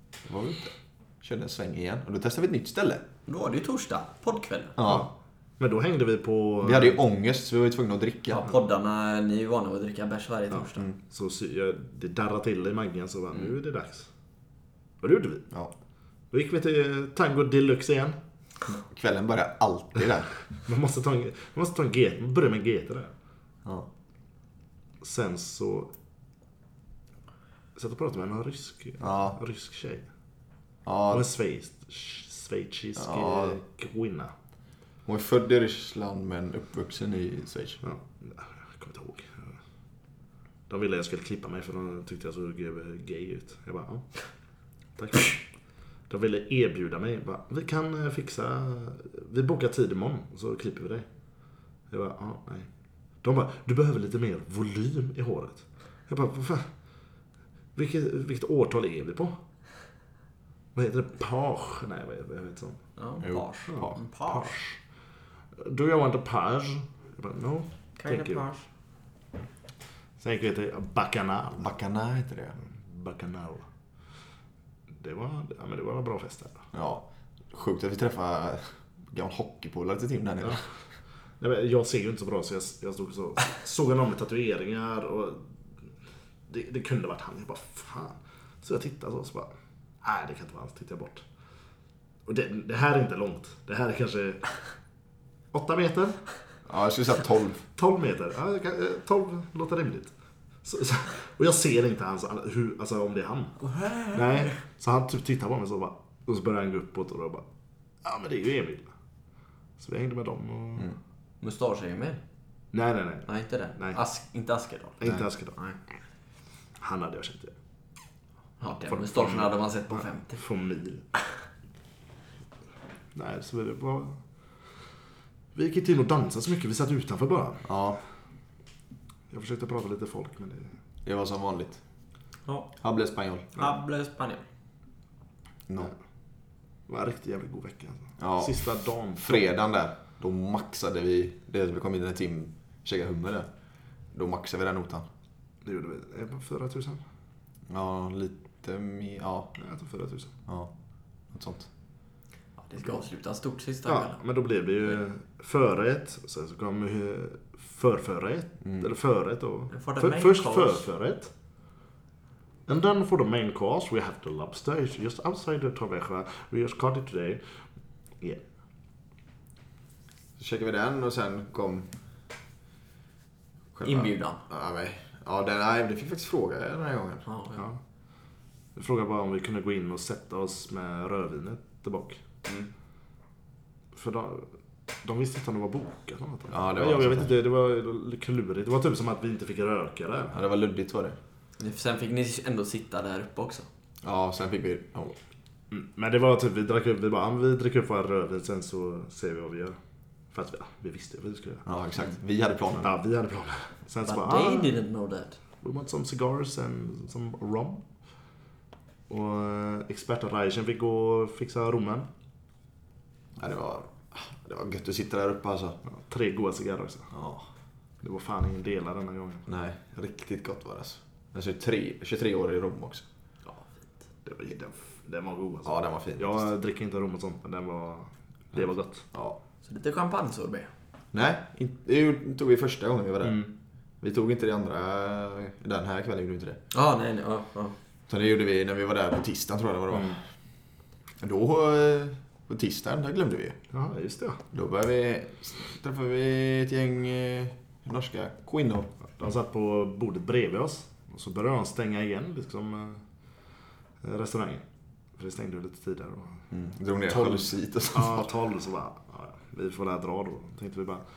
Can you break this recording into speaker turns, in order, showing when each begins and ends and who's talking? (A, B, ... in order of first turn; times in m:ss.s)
0:00.2-0:03.0 A
0:03.3-0:04.8 B
0:04.8-0:05.1 A
0:04.8-0:07.0 C
0:06.6-0:08.4 A
0:08.3-0:10.9 B
0:10.5-0:14.1 C
0:15.0-0:15.5 C
0:16.3-0:18.2 C
0:18.7-0:20.3 A
0:20.7-0:23.1 C
0:25.0-0:25.9 C
0:27.8-0:30.0 C
0:29.0-0:29.4 A
0:30.9-0:31.3 A
0:31.1-0:34.3 C
0:33.0-0:33.6 A
0:35.1-0:37.8 A
0:37.8-0:39.6 C
0:40.7-0:44.2 C
0:45.0-0:45.4 C
0:46.1-0:51.0 C
0:51.9-0:52.7 C
0:53.2-0:56.7 C
0:57.8-0:59.3 C
1:00.8-1:02.8 C
1:03.0-1:04.6 B
1:03.2-1:04.0 A
1:03.7-1:04.8 C
1:05.6-1:08.5 C
1:08.0-1:08.7 B
1:10.2-1:11.7 C
1:11.6-1:12.6 A
1:12.8-1:13.7 C
1:15.0-1:16.6 C
1:16.7-1:20.6 A
1:21.4-1:25.4 C
1:26.5-1:29.5 C
1:30.0-1:31.2 C
1:32.3-1:34.4 C
1:35.5-1:36.2 C
1:36.7-1:37.6 A
1:37.8-1:40.1 C
1:40.6-1:43.6 C
1:43.6-1:44.5 B
1:44.1-1:47.4 C
1:48.0-1:48.9 C
1:49.8-1:50.9 C
1:51.4-1:52.2 B
1:52.7-1:54.0 C
1:53.3-1:55.0 B
1:55.0-1:55.6 C
1:56.8-1:57.5 C
1:58.6-2:00.4 B
1:58.9-2:01.0 C
2:03.2-2:04.2 C
2:05.6-2:07.6 C
2:07.6-2:08.0 A
2:09.3-2:10.7 C
2:11.0-2:11.8 A
2:12.5-2:12.7 B
2:12.8-2:13.5 A
2:13.6-2:14.5 B
2:16.9-2:19.5 C
2:18.2-2:18.6 A
2:19.2-2:23.5 A
2:24.1-2:25.1 A
2:25.6-2:27.0 C
2:27.7-2:29.5 A
2:29.6-2:30.3 C
2:31.3-2:31.7 A
2:32.6-2:34.2 B
2:33.9-2:41.3 C
2:39.7-2:40.9 B
2:42.7-2:47.4 C
2:50.4-2:51.9 A
2:53.7-2:57.3 A
2:53.8-2:54.4 B
2:57.3-2:57.6 B
2:58.8-3:02.2 C
3:03.9-3:04.5 C
3:05.0-3:10.4 C
3:06.5-3:07.3 A
3:10.3-3:11.2 A
3:11.6-3:13.7 B
3:14.0-3:15.2 A
3:15.7-3:19.8 C
3:20.3-3:21.6 C
3:21.6-3:22.9 A
3:22.8-3:24.7 C
3:24.0-3:25.4 B
3:25.6-3:27.8 C
3:29.1-3:32.1 C
3:33.4-3:35.8 A
3:35.9-3:37.1 C
3:37.1-3:37.4 A
3:38.0-3:39.5 C
3:39.5-3:43.0 A
3:44.3-3:49.0 C
3:45.6-3:46.5 A
3:48.5-3:49.4 A
3:49.6-3:50.7 B
3:51.1-3:53.4 A
3:53.2-3:53.5 C
3:54.0-3:56.6 A
3:56.7-3:57.8 B
3:58.1-4:00.2 A
3:59.9-4:00.2 C
4:01.2-4:03.6 A
4:03.7-4:04.4 C
4:04.5-4:08.9 A
4:09.2-4:13.0 C
4:14.0-4:14.6 C
4:15.2-4:16.4 C
4:16.5-4:18.3 A
4:17.1-4:21.0 C